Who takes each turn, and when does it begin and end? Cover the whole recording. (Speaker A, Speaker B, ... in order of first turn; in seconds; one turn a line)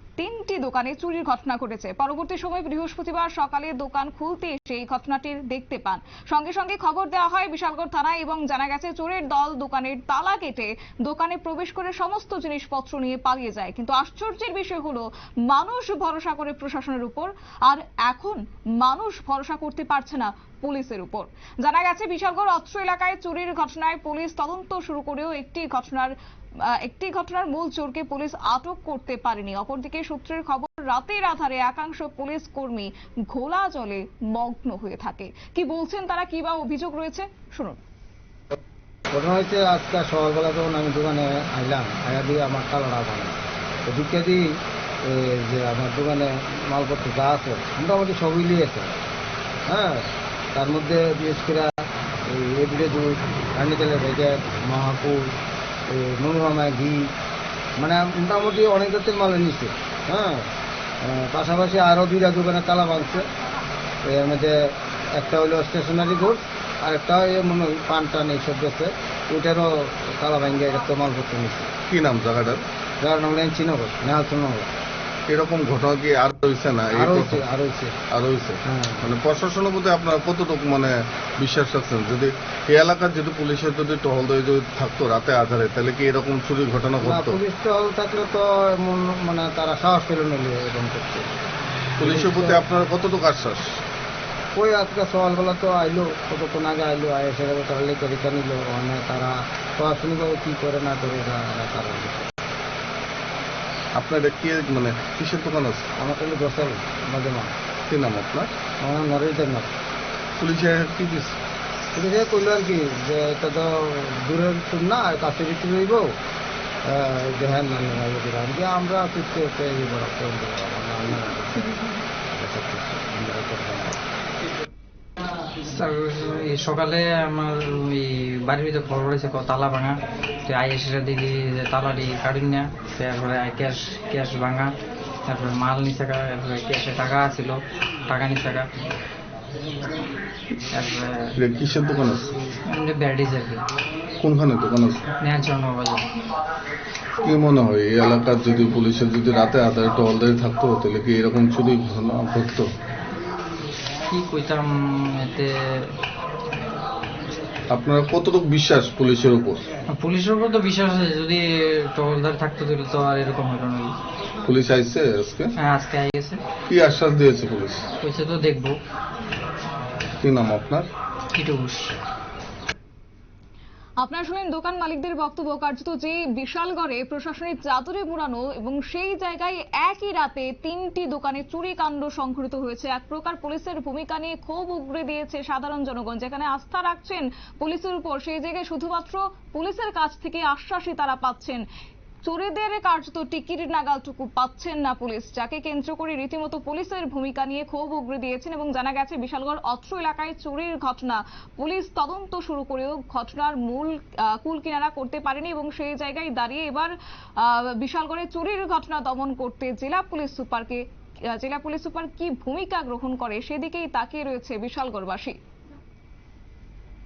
Speaker A: 0.2-26.1
Speaker A: 26.7-37.8
Speaker B: 39.1-44.5
Speaker B: 45.0-49.0
Speaker B: 49.7-55.3
Speaker B: 55.9-57.1
Speaker B: 57.8-60.5
Speaker B: 61.0-63.3
Speaker B: 64.0-71.7
Speaker C: 71.9-72.6
Speaker B: 73.0-74.7
Speaker C: 75.3-77.4
Speaker B: 77.0-78.0
Speaker C: 78.1-87.4
Speaker B: 78.7-79.0
Speaker B: 87.0-91.3
Speaker C: 92.0-93.8
Speaker B: 92.0-92.6
Speaker B: 94.5-102.3
Speaker C: 103.9-105.8
Speaker B: 106.0-107.5
Speaker C: 107.9-108.5
Speaker B: 108.8-109.7
Speaker C: 110.4-111.4
Speaker B: 111.9-116.1
Speaker B: 116.9-121.8
Speaker B: 122.3-124.0
Speaker D: 125.7-134.7
Speaker D: 135.3-138.7
Speaker D: 140.7-141.3
Speaker C: 141.4-142.3
Speaker D: 142.7-143.6
Speaker C: 144.2-145.0
Speaker D: 145.2-146.1
Speaker C: 147.2-152.7
Speaker D: 154.1-155.9
Speaker C: 157.7-159.6
Speaker D: 159.9-163.9
Speaker C: 164.4-165.5
Speaker D: 165.6-166.4
Speaker C: 166.7-167.8
Speaker D: 168.0-168.8
Speaker C: 170.2-170.9
Speaker D: 171.3-171.9
Speaker A: 174.0-191.6
Speaker A: 192.2-215.3